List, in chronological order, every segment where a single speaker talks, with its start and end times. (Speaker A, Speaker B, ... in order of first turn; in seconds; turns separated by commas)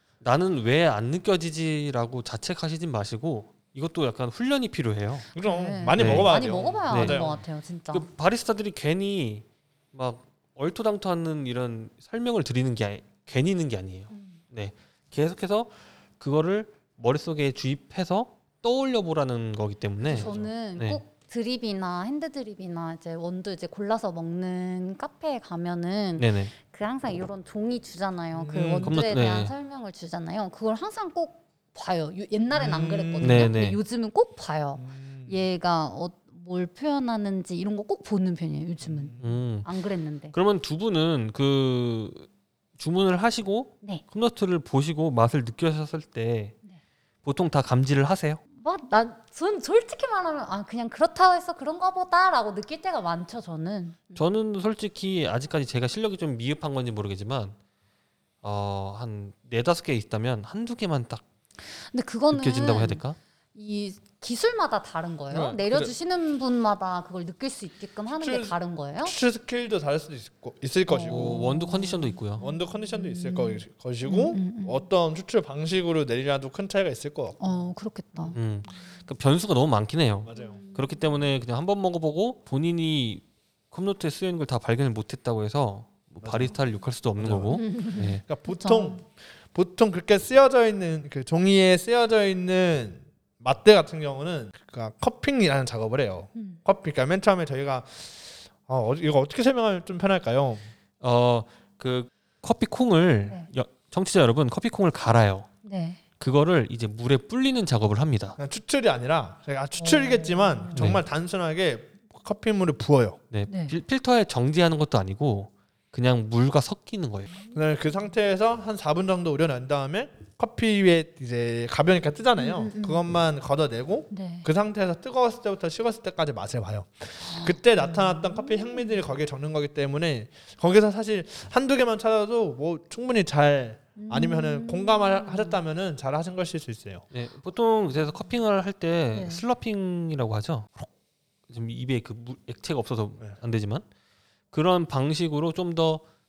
Speaker A: 0.2-5.3, Speaker B: 5.3-8.1, Speaker C: 5.3-7.4, Speaker A: 6.0-6.3, Speaker A: 6.9-7.2, Speaker A: 7.9-21.0, Speaker B: 14.1-14.4, Speaker B: 20.1-40.3, Speaker C: 20.1-20.5, Speaker A: 26.2-26.5, Speaker C: 28.4-29.0, Speaker A: 28.8-29.5, Speaker C: 32.5-33.5, Speaker A: 33.2-33.8, Speaker C: 34.8-35.4, Speaker C: 38.8-39.3, Speaker A: 39.2-39.7, Speaker A: 40.3-46.6, Speaker A: 47.2-48.4, Speaker B: 48.6-54.2, Speaker A: 54.2-57.6, Speaker A: 58.4-61.2, Speaker B: 61.8-63.0, Speaker A: 62.3-63.2, Speaker B: 63.5-69.2, Speaker C: 65.3-65.9, Speaker C: 68.2-71.5, Speaker B: 70.9-74.9, Speaker A: 71.1-72.4, Speaker C: 72.4-77.4, Speaker B: 77.4-78.4, Speaker A: 78.3-88.2, Speaker C: 80.2-80.6, Speaker B: 80.3-81.2, Speaker C: 86.2-86.5, Speaker C: 87.2-87.6, Speaker B: 87.5-89.0, Speaker C: 88.3-100.7, Speaker A: 101.0-105.5, Speaker B: 105.7-106.0, Speaker A: 106.2-108.4, Speaker C: 108.4-113.2, Speaker B: 109.8-110.9, Speaker A: 110.7-111.0, Speaker A: 113.3-117.3, Speaker B: 113.5-113.8, Speaker C: 117.5-137.0, Speaker B: 122.4-123.0, Speaker B: 124.1-124.5, Speaker B: 127.2-129.0, Speaker B: 134.0-135.6, Speaker A: 137.1-140.9, Speaker B: 139.1-139.4, Speaker A: 141.5-143.8, Speaker A: 144.5-146.0